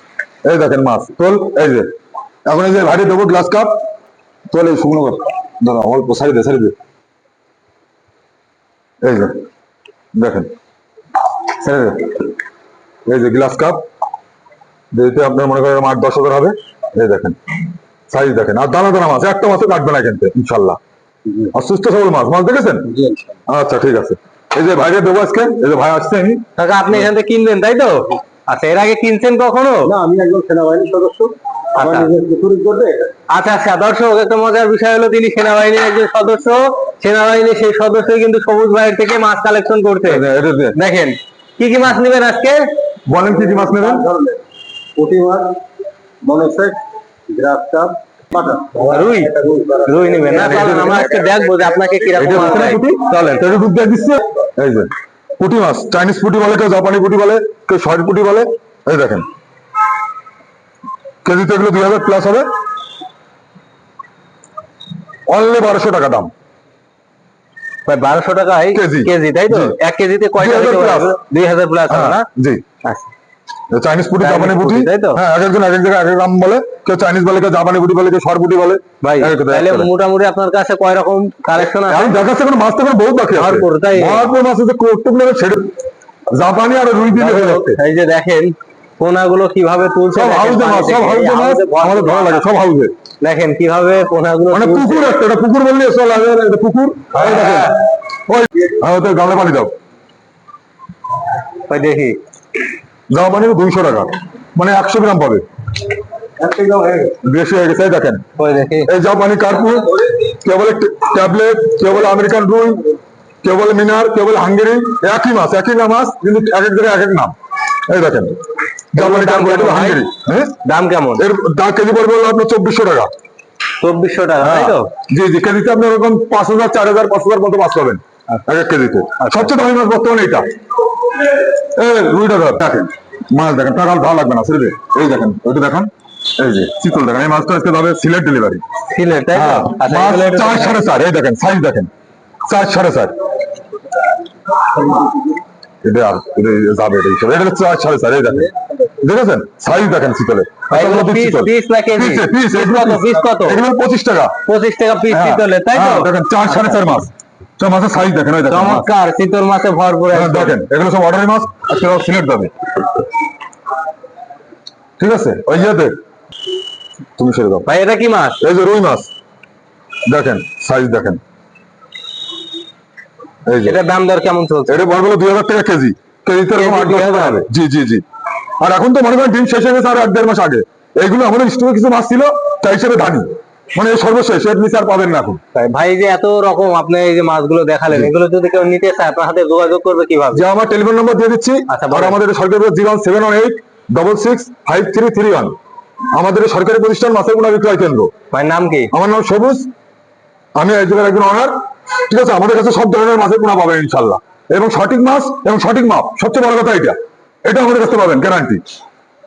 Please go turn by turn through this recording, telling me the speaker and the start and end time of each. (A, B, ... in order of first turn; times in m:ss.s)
0:00.4-0:01.9 A
0:02.4-0:03.7 A
0:04.5-0:06.7 A
0:09.0-0:09.4 A
0:10.2-0:10.5 A
0:11.5-0:12.2 A
0:13.0-0:13.8 A
0:14.9-0:17.4 A
0:18.1-0:20.8 A
0:21.5-0:22.9 A
0:22.9-0:23.2 B
0:23.5-0:26.4 A
0:26.6-0:29.9 C
0:29.8-0:33.1 B
0:31.8-0:32.1 C
0:33.3-0:40.2 C
0:40.0-0:40.8 A
0:40.7-0:42.7 C
0:43.1-0:44.0 A
0:43.4-0:44.4 B
0:45.0-0:45.6 B
0:46.2-0:51.0 B
0:48.8-0:49.3 C
0:49.8-0:53.5 C
0:50.5-0:51.0 A
0:52.2-0:59.2 A
1:01.2-1:02.5 A
1:05.3-1:06.3 A
1:07.8-1:12.2 C
1:08.7-1:09.8 A
1:10.4-1:11.1 A
1:11.9-1:12.6 A
1:13.7-1:19.9 A
1:14.2-1:15.2 C
1:19.0-1:22.2 C
1:21.6-1:25.7 A
1:23.3-1:24.3 C
1:26.3-1:27.8 A
1:27.1-1:32.4 C
1:30.1-1:32.9 A
1:33.2-1:35.1 C
1:34.5-1:39.7 A
1:37.2-1:37.7 C
1:41.7-1:42.2 C
1:43.1-1:45.4 A
1:46.4-1:47.1 B
1:47.2-1:48.2 A
1:48.4-1:48.9 C
1:48.8-1:52.8 A
1:53.4-1:57.3 A
1:57.9-1:58.4 A
1:58.9-2:00.6 A
1:59.0-2:00.1 C
2:00.6-2:01.2 C
2:01.2-2:03.1 A
2:03.8-2:04.9 C
2:04.4-2:10.4 A
2:09.2-2:09.5 C
2:11.4-2:18.6 A
2:18.9-2:20.8 C
2:19.3-2:21.9 A
2:22.5-2:23.1 A
2:25.8-2:34.4 A
2:30.7-2:33.6 C
2:34.5-2:36.8 C
2:35.1-2:38.9 A
2:38.5-2:40.6 C
2:40.1-2:42.5 A
2:45.0-2:46.0 A
2:47.2-2:47.7 A
2:47.7-2:48.4 C
2:48.4-2:49.1 A
2:50.1-2:51.2 A
2:53.4-2:53.8 A
2:53.6-2:54.8 C
2:54.7-2:58.0 A
2:56.5-2:57.4 C
2:58.6-3:05.4 A
3:05.5-3:10.4 C
3:10.3-3:15.6 A
3:11.7-3:12.2 C
3:16.1-3:18.1 A
3:18.3-3:18.9 C
3:18.9-3:19.7 A
3:20.6-3:21.5 A
3:22.0-3:28.6 A